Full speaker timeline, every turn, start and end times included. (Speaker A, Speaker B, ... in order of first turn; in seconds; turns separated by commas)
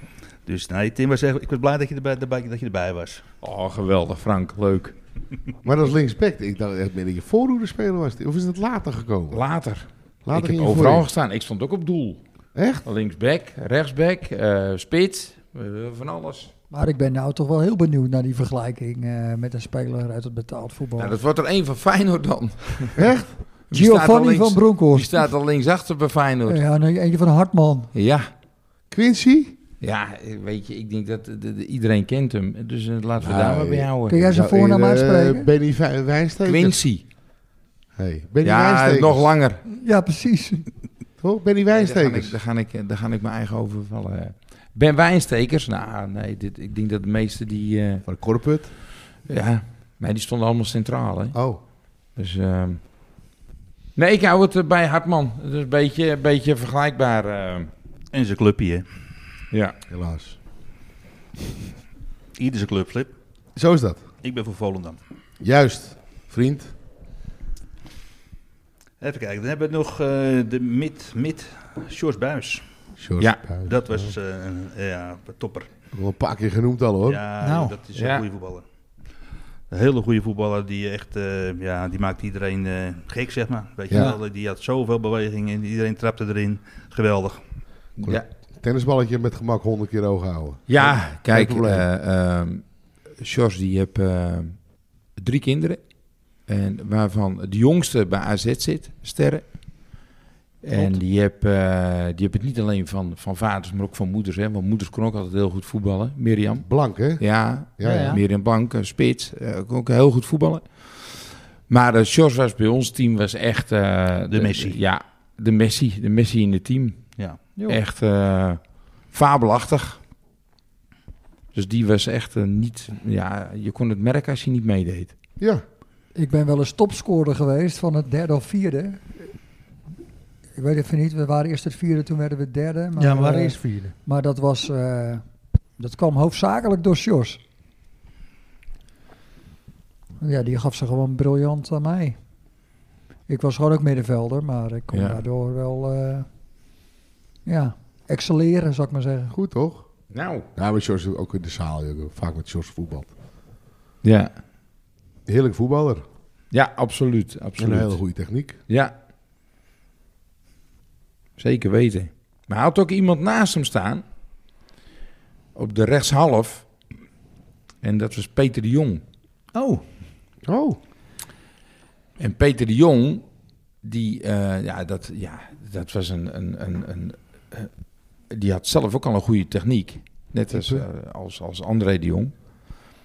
Speaker A: 0.5-3.2, Speaker B: 3.4-4.9, Speaker C: 5.6-9.4, Speaker B: 9.3-12.2, Speaker C: 10.2-11.1, Speaker C: 12.5-12.8, Speaker B: 12.8-16.5, Speaker D: 16.7-21.2, Speaker B: 21.0-23.1, Speaker C: 22.9-23.4, Speaker B: 23.7-26.6, Speaker D: 23.7-25.3, Speaker D: 26.5-27.9, Speaker B: 27.9-28.3, Speaker C: 28.9-29.6, Speaker B: 29.8-34.2, Speaker C: 33.2-36.8, Speaker D: 34.1-35.5, Speaker B: 36.4-37.0, Speaker C: 38.0-39.3, Speaker B: 38.4-39.6, Speaker D: 39.6-40.7, Speaker C: 41.2-42.4, Speaker B: 41.7-48.0, Speaker C: 48.0-48.7, Speaker B: 49.2-51.4, Speaker C: 51.3-51.6, Speaker B: 52.1-52.8, Speaker B: 54.0-57.7, Speaker A: 58.1-58.9, Speaker B: 59.5-59.8, Speaker C: 59.9-60.4, Speaker A: 62.4-63.1, Speaker C: 63.5-64.0, Speaker A: 64.2-65.0, Speaker C: 65.4-66.7, Speaker A: 69.0-72.7, Speaker C: 73.0-74.1, Speaker B: 73.2-73.5, Speaker A: 73.6-75.7, Speaker C: 75.9-77.2, Speaker A: 77.0-78.6, Speaker E: 77.4-77.8, Speaker B: 77.9-78.2, Speaker A: 79.7-87.4, Speaker E: 83.9-84.2, Speaker B: 88.0-88.2, Speaker C: 88.0-91.8, Speaker B: 90.7-95.8, Speaker B: 96.3-100.0, Speaker B: 100.6-117.1, Speaker E: 100.7-101.0, Speaker C: 106.6-108.2, Speaker E: 107.8-108.2, Speaker A: 114.3-114.8, Speaker A: 117.2-117.6, Speaker B: 117.6-120.0, Speaker B: 121.5-125.1, Speaker D: 126.1-129.3, Speaker D: 130.6-135.2, Speaker E: 133.0-133.9, Speaker D: 135.8-137.4, Speaker D: 140.2-142.2, Speaker D: 143.3-146.2, Speaker B: 144.9-145.2, Speaker D: 147.4-149.3, Speaker C: 149.3-149.9, Speaker B: 150.1-150.5, Speaker C: 150.5-153.1, Speaker B: 154.0-154.3, Speaker C: 155.2-156.0, Speaker B: 156.5-158.0, Speaker C: 157.6-158.6, Speaker B: 158.7-158.9, Speaker B: 161.4-164.0, Speaker B: 165.5-166.7, Speaker B: 167.8-169.0, Speaker E: 169.5-169.8, Speaker C: 170.4-170.8, Speaker B: 172.2-173.2, Speaker B: 173.8-177.7, Speaker B: 178.3-182.3, Speaker C: 180.5-180.8